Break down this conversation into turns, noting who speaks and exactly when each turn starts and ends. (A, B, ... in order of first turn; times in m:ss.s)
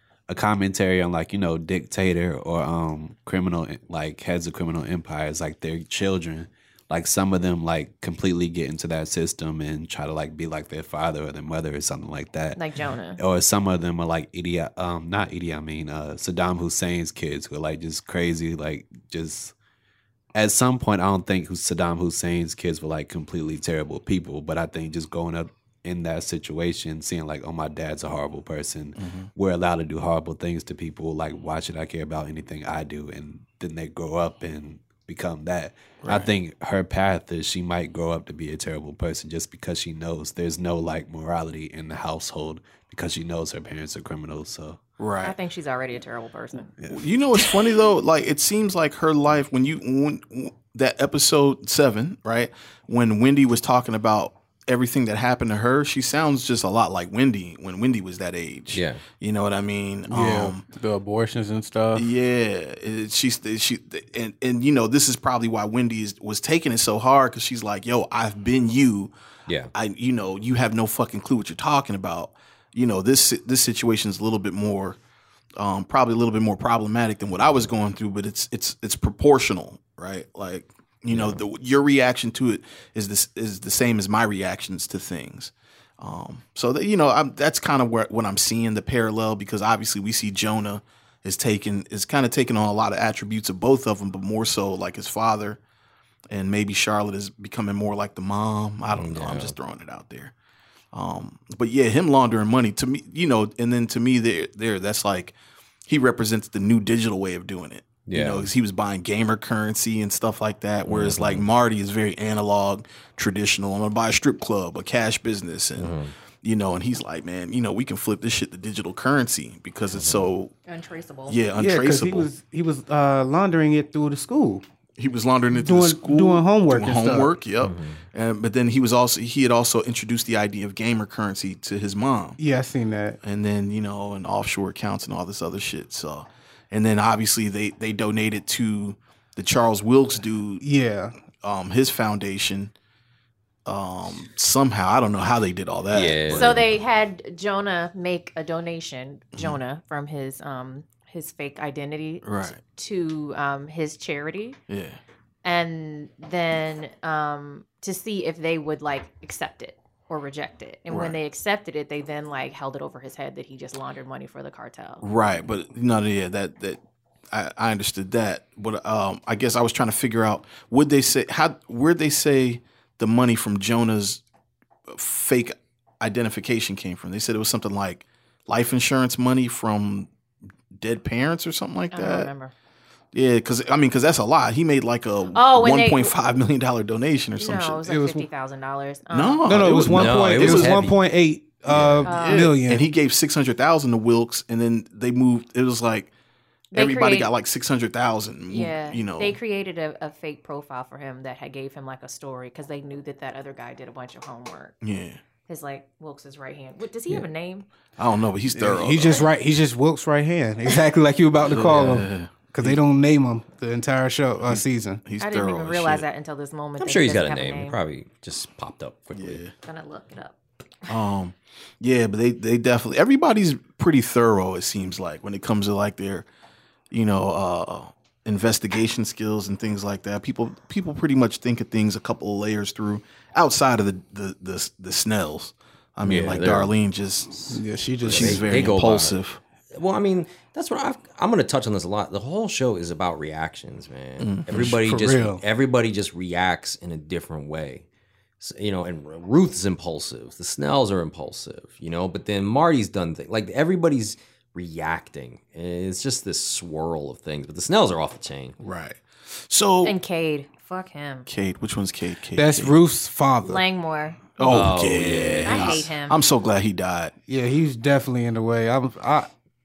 0:00.3-0:12.6 A
0:12.5-0:13.2 B
0:13.2-0:19.5 A
0:20.3-0:44.8 A
0:29.0-0:29.3 C
0:36.0-0:36.3 C
0:45.0-0:45.3 C
0:45.2-0:46.7 B
0:46.9-1:00.6 C
0:58.7-0:59.0 D
1:00.1-1:02.1 E
1:01.9-1:09.1 C
1:09.7-1:15.0 C
1:15.6-1:35.6 C
1:21.1-1:21.4 D
1:36.3-1:40.3 C
1:38.9-1:39.5 D
1:40.9-1:45.3 C
1:45.9-2:00.5 C
1:48.0-1:48.5 D
1:50.9-1:51.4 D
1:55.8-1:56.1 D
1:59.9-2:00.3 D
2:00.6-2:01.4 B
2:01.3-2:02.3 C
2:01.6-2:04.6 E
2:05.0-2:12.4 C
2:05.5-2:07.3 E
2:07.6-2:08.0 D
2:12.4-2:13.2 E
2:13.2-2:20.6 C
2:20.6-2:21.1 E
2:21.4-2:22.7 C
2:23.6-2:26.6 C
2:25.9-2:26.6 D
2:26.3-2:34.6 B
2:32.2-2:32.6 C
2:34.7-2:35.0 C
2:35.4-2:45.0 B
2:40.9-2:41.2 C
2:45.0-2:46.8 C
2:47.3-2:54.2 C
2:54.9-3:00.1 C
3:00.7-3:02.3 C
3:01.9-3:02.5 B
3:03.1-3:07.8 C
3:05.3-3:06.1 B
3:07.4-3:09.7 B
3:07.9-3:08.3 E
3:09.1-3:10.9 C
3:09.4-3:12.8 E
3:09.9-3:11.0 D
3:11.6-3:16.1 C
3:12.0-3:12.6 B
3:16.7-3:17.3 B
3:16.7-3:19.4 C
3:18.5-3:24.7 B
3:24.8-3:25.2 C
3:25.5-3:27.6 B
3:28.0-3:29.3 C
3:28.5-3:35.0 E
3:31.4-3:32.8 C
3:34.4-3:36.0 C
3:35.2-3:37.8 B
3:36.8-3:39.4 D
3:39.1-3:39.5 C
3:39.6-3:40.4 B
3:40.9-3:46.3 C
3:46.9-3:59.4 C
3:56.0-3:56.7 D
3:57.5-3:58.4 E
3:58.0-3:59.1 D
3:59.7-4:07.9 D
4:04.2-4:04.8 C
4:04.5-4:05.4 E
4:08.4-4:18.6 D
4:18.6-4:20.0 C
4:19.8-4:21.3 B
4:21.3-4:22.7 C
4:22.4-4:23.6 E
4:23.4-4:24.7 B
4:24.4-4:27.1 C
4:24.4-4:25.9 D
4:25.4-4:26.2 B
4:27.3-4:29.3 E